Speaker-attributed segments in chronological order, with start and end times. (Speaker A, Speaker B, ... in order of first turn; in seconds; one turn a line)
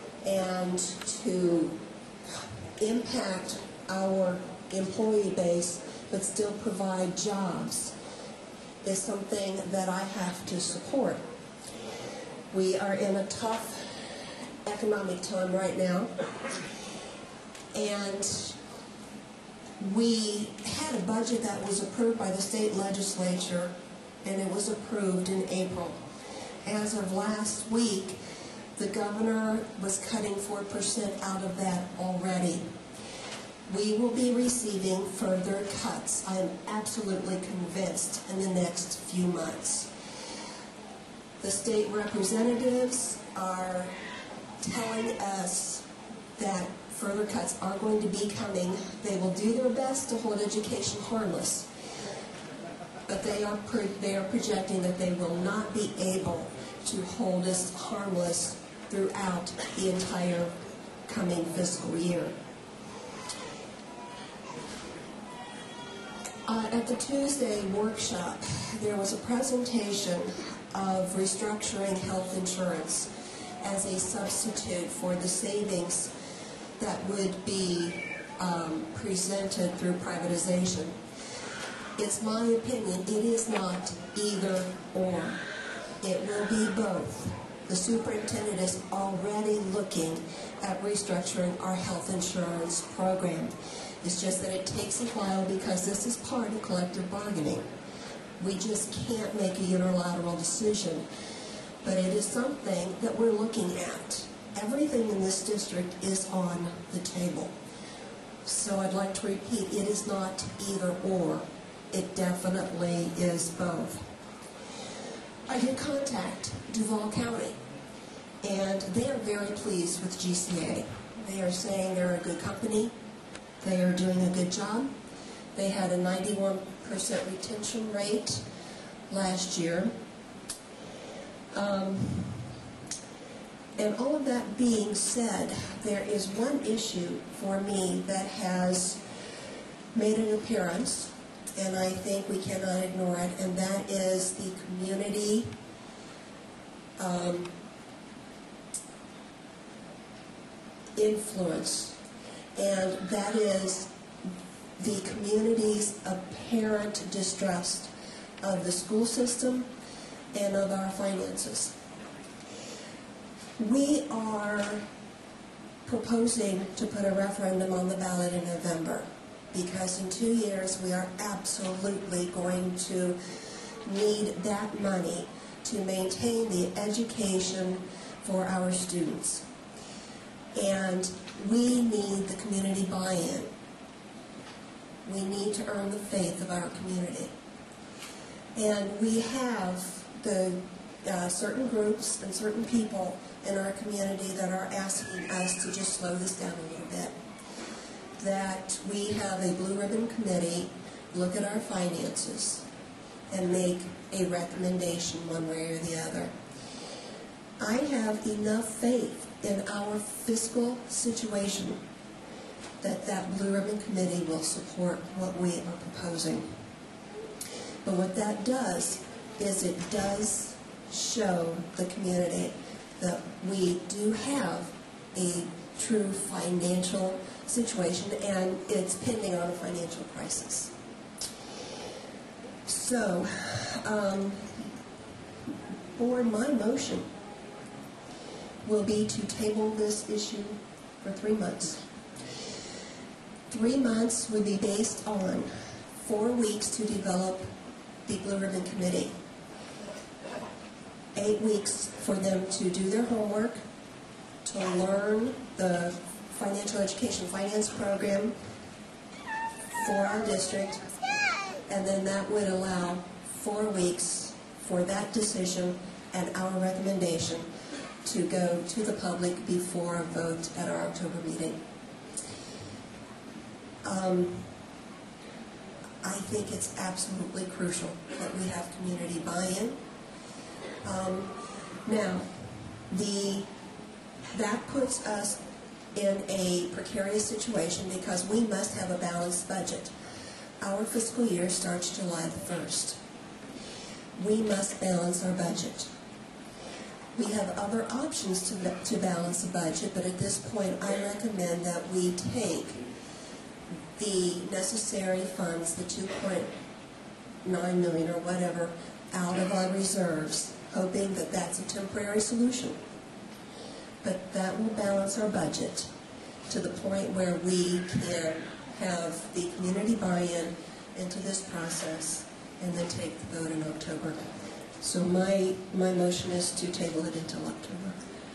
Speaker A: 0.2-1.7
Speaker A: 2.8-7.9
Speaker A: 8.8-11.2
Speaker A: 12.5-14.0
Speaker A: 14.6-16.1
Speaker A: 17.7-18.6
Speaker A: 19.8-23.7
Speaker A: 24.2-26.0
Speaker A: 26.6-28.2
Speaker A: 28.8-32.6
Speaker A: 33.7-39.9
Speaker A: 41.4-43.9
Speaker A: 44.6-45.8
Speaker A: 46.4-51.7
Speaker A: 53.1-60.5
Speaker A: 61.1-62.3
Speaker A: 66.5-73.1
Speaker A: 73.6-76.1
Speaker A: 76.8-81.0
Speaker A: 82.0-85.4
Speaker A: 86.0-97.7
Speaker A: 98.4-101.0
Speaker A: 101.8-107.5
Speaker A: 108.4-114.0
Speaker A: 115.5-117.5
Speaker A: 118.4-122.9
Speaker A: 123.6-124.9
Speaker A: 125.5-128.4
Speaker A: 129.1-129.9
Speaker A: 131.5-132.5
Speaker A: 133.8-139.0
Speaker A: 139.9-145.5
Speaker A: 147.0-147.5
Speaker A: 151.0-152.0
Speaker A: 152.6-153.9
Speaker A: 154.8-157.9
Speaker A: 158.4-159.7
Speaker A: 160.3-161.7
Speaker A: 163.6-164.8
Speaker A: 165.8-173.2
Speaker A: 173.8-179.4
Speaker A: 180.6-183.5
Speaker A: 185.1-187.3
Speaker A: 188.6-197.1
Speaker A: 198.2-202.6
Speaker A: 203.3-206.3
Speaker A: 207.6-211.8
Speaker A: 212.8-216.4
Speaker A: 217.8-230.7
Speaker A: 232.7-234.6
Speaker A: 235.9-237.1
Speaker A: 238.6-241.8
Speaker A: 243.5-247.4
Speaker A: 248.1-249.1
Speaker A: 251.2-253.6
Speaker A: 254.4-258.3
Speaker A: 259.8-260.9
Speaker A: 261.7-267.4
Speaker A: 268.0-271.6
Speaker A: 273.8-274.5
Speaker A: 276.0-279.8
Speaker A: 280.8-281.3
Speaker A: 281.9-282.3
Speaker A: 282.9-283.5
Speaker A: 284.3-285.4
Speaker A: 285.9-289.9
Speaker A: 290.6-293.0
Speaker A: 294.1-295.9
Speaker A: 297.1-302.8
Speaker A: 304.0-306.5
Speaker A: 307.4-312.8
Speaker A: 314.0-315.9
Speaker A: 316.5-324.2
Speaker A: 324.8-328.0